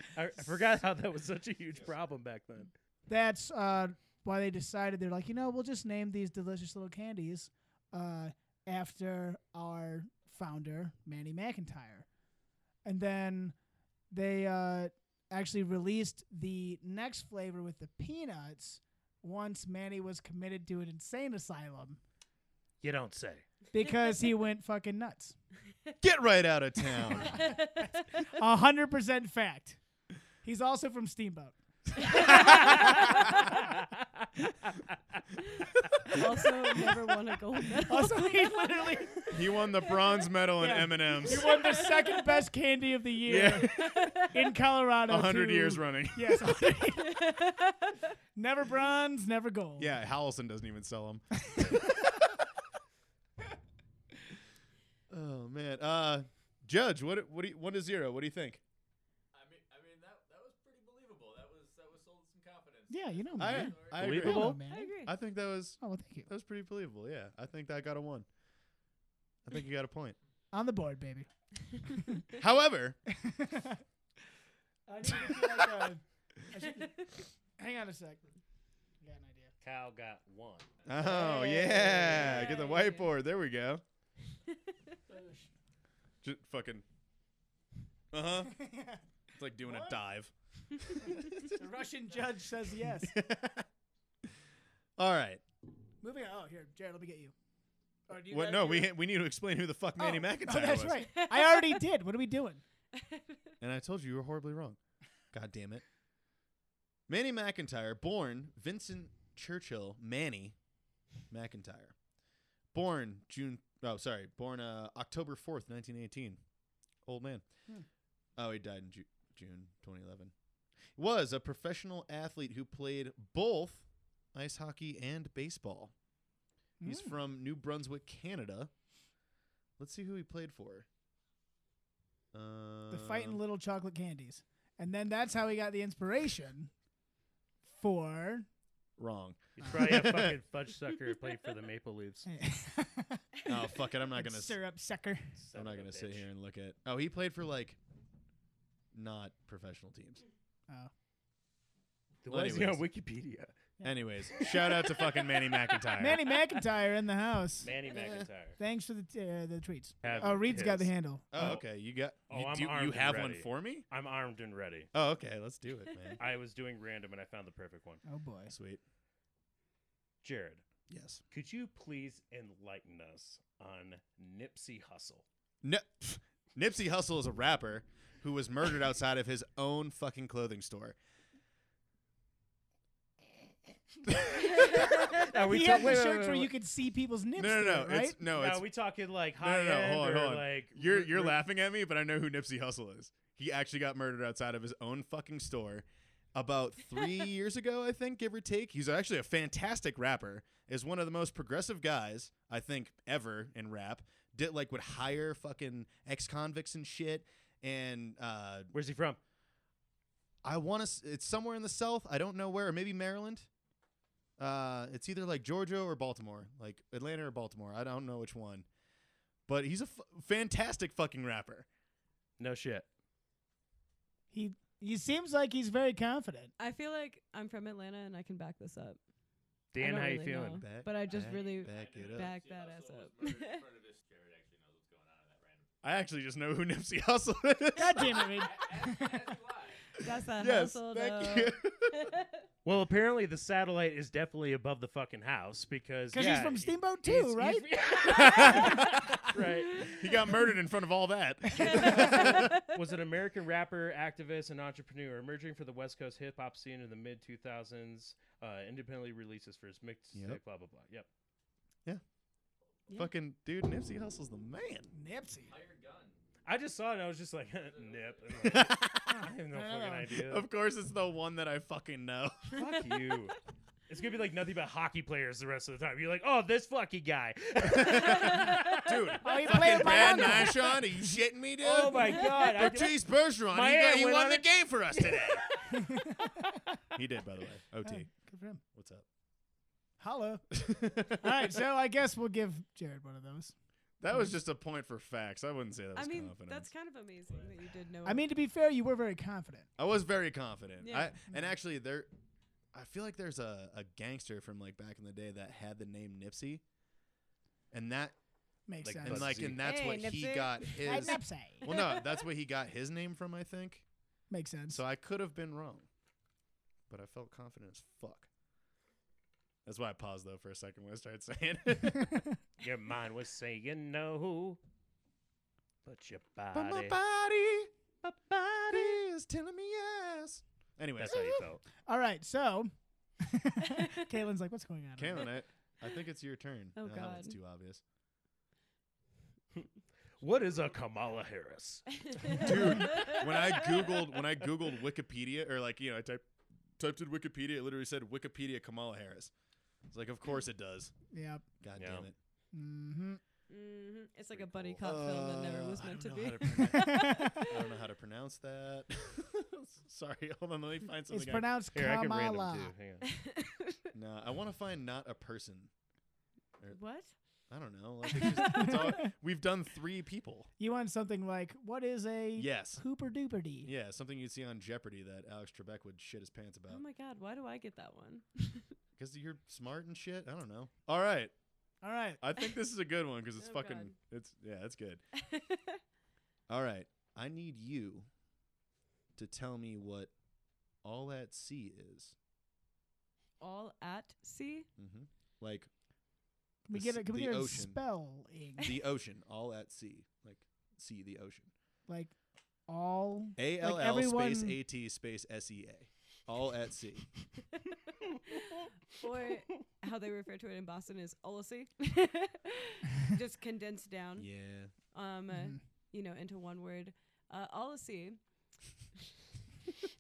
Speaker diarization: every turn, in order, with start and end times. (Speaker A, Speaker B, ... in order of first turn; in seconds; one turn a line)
Speaker A: 0.1-2.7
Speaker B: 3.1-12.1
Speaker B: 12.8-13.6
Speaker B: 14.1-22.0
Speaker A: 22.8-23.5
Speaker B: 23.7-25.4
Speaker C: 26.0-27.5
Speaker D: 27.0-28.2
Speaker B: 28.3-29.8
Speaker B: 30.4-33.6
Speaker C: 33.1-33.3
Speaker D: 35.6-38.4
Speaker B: 37.9-39.7
Speaker C: 39.3-41.6
Speaker B: 40.6-47.4
Speaker D: 41.3-42.4
Speaker C: 43.3-43.9
Speaker D: 43.6-44.4
Speaker C: 45.1-46.7
Speaker D: 47.0-48.0
Speaker B: 48.4-50.0
Speaker C: 49.8-52.5
Speaker C: 55.1-58.6
Speaker E: 59.3-64.1
Speaker B: 62.9-65.0
Speaker C: 63.4-68.3
Speaker A: 64.0-64.6
Speaker D: 64.7-65.1
Speaker B: 65.8-66.3
Speaker C: 69.5-70.2
Speaker B: 70.5-71.3
Speaker B: 71.9-72.2
Speaker C: 72.4-73.0
Speaker B: 73.1-73.8
Speaker B: 74.9-77.0
Speaker C: 75.1-75.8
Speaker B: 77.6-78.2
Speaker B: 79.0-79.5
Speaker A: 79.6-80.7
Speaker C: 80.8-83.8
Speaker D: 81.0-83.1
Speaker B: 81.3-81.6
Speaker A: 82.2-82.5
Speaker B: 85.1-85.5
Speaker C: 86.2-86.8
Speaker C: 88.1-88.6
Speaker B: 88.5-89.0
Speaker C: 89.3-91.6
Speaker B: 89.6-90.0
Speaker B: 91.4-93.2
Speaker C: 92.8-93.7
Speaker C: 95.0-95.4
Speaker B: 96.0-97.3
Speaker B: 98.1-99.0
Speaker C: 98.2-101.0
Speaker B: 100.0-102.6
Speaker D: 101.1-101.8
Speaker D: 102.9-103.4
Speaker C: 103.6-104.8
Speaker C: 105.3-105.8
Speaker C: 107.1-110.5
Speaker C: 111.3-112.0
Speaker C: 112.7-116.4
Speaker C: 117.0-117.5
Speaker C: 118.4-120.3
Speaker C: 121.0-125.9
Speaker B: 126.8-127.2
Speaker C: 126.8-128.7
Speaker C: 129.8-130.9
Speaker C: 132.3-133.4
Speaker B: 132.9-136.7
Speaker B: 137.7-138.5
Speaker C: 139.0-140.4
Speaker A: 139.6-142.3
Speaker B: 142.3-145.3
Speaker C: 143.4-144.6
Speaker A: 145.4-146.3
Speaker C: 145.5-147.8
Speaker C: 148.9-150.2
Speaker A: 152.2-153.6
Speaker C: 152.3-152.8
Speaker B: 153.8-154.1
Speaker C: 153.8-156.2
Speaker B: 156.0-157.7
Speaker A: 157.6-158.6
Speaker C: 157.9-158.3
Speaker B: 158.6-161.3
Speaker A: 160.0-161.6
Speaker C: 161.3-163.9
Speaker A: 162.3-164.9
Speaker C: 164.9-166.2
Speaker A: 166.2-168.0
Speaker B: 168.1-168.5
Speaker C: 168.5-168.8
Speaker A: 170.2-170.7
Speaker C: 170.9-171.2
Speaker A: 171.3-175.2
Speaker C: 175.6-181.0
Speaker C: 184.0-185.0
Speaker A: 185.1-186.5
Speaker B: 185.5-188.2
Speaker C: 187.4-188.7
Speaker A: 188.3-191.4
Speaker C: 189.4-208.7
Speaker A: 208.7-209.2
Speaker C: 210.4-213.5
Speaker C: 214.4-218.7
Speaker C: 219.5-221.7
Speaker A: 222.4-222.9
Speaker B: 224.3-226.5
Speaker D: 226.6-229.0
Speaker A: 229.7-230.7
Speaker D: 229.8-233.7
Speaker C: 230.5-232.3
Speaker E: 231.1-235.7
Speaker C: 235.8-238.3
Speaker B: 237.8-239.4
Speaker E: 238.2-240.0
Speaker D: 240.0-242.4
Speaker C: 240.3-242.1
Speaker A: 242.7-250.0
Speaker B: 246.1-247.7
Speaker C: 248.1-249.2
Speaker C: 249.8-252.6
Speaker D: 251.7-252.6
Speaker A: 251.7-261.1
Speaker C: 260.1-260.4
Speaker C: 262.9-264.9
Speaker B: 264.9-265.5
Speaker E: 265.5-266.2
Speaker A: 266.5-270.5
Speaker E: 267.7-268.6
Speaker C: 268.4-269.2
Speaker B: 269.1-270.1
Speaker C: 270.2-272.6
Speaker A: 272.6-273.4
Speaker A: 273.9-280.5
Speaker C: 277.6-285.4
Speaker B: 279.2-280.9
Speaker A: 281.6-285.9
Speaker B: 285.7-286.6
Speaker C: 286.9-288.1
Speaker B: 287.8-288.6
Speaker C: 288.7-289.1
Speaker B: 290.0-290.5
Speaker C: 290.5-291.5
Speaker B: 291.1-293.6
Speaker C: 294.0-296.7
Speaker D: 295.9-298.2
Speaker B: 298.1-299.7
Speaker C: 299.8-302.1
Speaker D: 300.8-301.1
Speaker C: 302.7-306.6
Speaker C: 307.7-308.1
Speaker B: 308.7-309.5
Speaker A: 308.8-309.6
Speaker C: 309.0-313.9
Speaker D: 309.6-312.2
Speaker B: 310.8-311.7
Speaker B: 314.3-314.8
Speaker C: 314.7-315.9
Speaker C: 316.9-318.3
Speaker C: 319.6-322.3
Speaker A: 322.6-324.6
Speaker A: 325.8-327.0
Speaker C: 326.5-331.5
Speaker A: 331.0-331.6
Speaker B: 331.9-335.3
Speaker C: 335.0-337.8
Speaker D: 336.8-337.4
Speaker A: 340.2-342.6
Speaker D: 342.1-343.9
Speaker C: 342.3-346.2
Speaker C: 346.8-349.3
Speaker C: 349.9-350.9
Speaker B: 351.1-351.4
Speaker C: 351.6-352.1
Speaker A: 351.8-352.1
Speaker B: 352.5-353.2
Speaker D: 353.5-357.1
Speaker C: 354.3-361.6
Speaker B: 356.7-357.5
Speaker B: 361.1-362.7
Speaker A: 361.7-363.1
Speaker D: 363.1-363.8
Speaker C: 363.9-365.7
Speaker D: 366.7-367.1
Speaker C: 367.5-370.5
Speaker D: 368.1-368.8
Speaker B: 368.5-369.1
Speaker B: 370.6-373.7
Speaker C: 372.4-372.8
Speaker C: 373.6-376.8
Speaker D: 376.7-378.7
Speaker C: 379.0-381.3
Speaker B: 381.8-382.2
Speaker C: 382.2-385.0
Speaker D: 383.4-383.9
Speaker D: 385.2-385.8
Speaker C: 386.5-388.1
Speaker C: 389.1-390.1
Speaker C: 390.8-392.1
Speaker D: 393.4-394.7
Speaker C: 394.8-395.7
Speaker B: 396.7-398.6
Speaker C: 396.7-397.8
Speaker C: 398.6-401.5
Speaker B: 401.9-402.1
Speaker B: 402.7-404.6
Speaker C: 403.4-407.1
Speaker D: 408.4-418.8
Speaker C: 414.2-414.7
Speaker B: 415.3-415.6